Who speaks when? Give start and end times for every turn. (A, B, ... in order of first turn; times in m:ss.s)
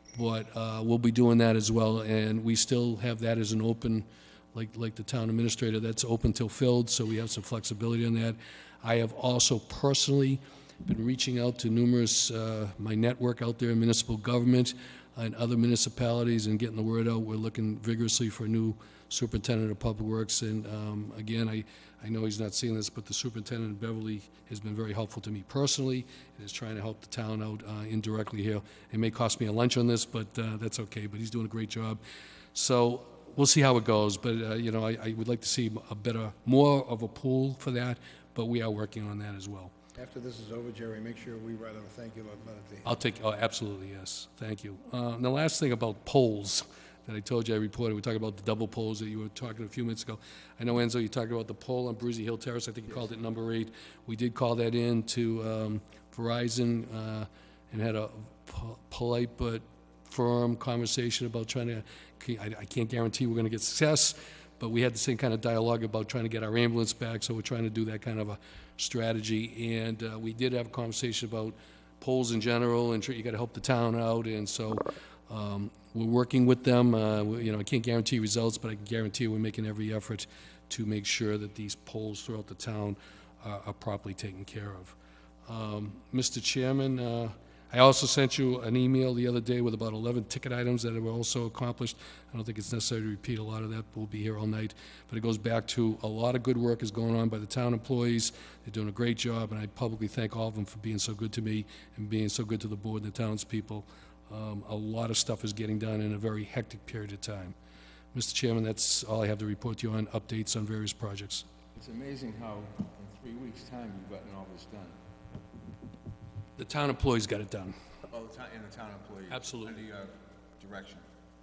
0:00.2-0:32.0 A
0:32.5-0:39.7 A
0:40.0-0:42.9 B
0:42.8-1:25.0 A
1:25.5-1:47.6 A
1:48.1-1:51.4 A
1:51.7-1:55.0 C
1:56.6-1:57.7 A
1:58.1-2:01.1 C
1:59.3-1:59.7 A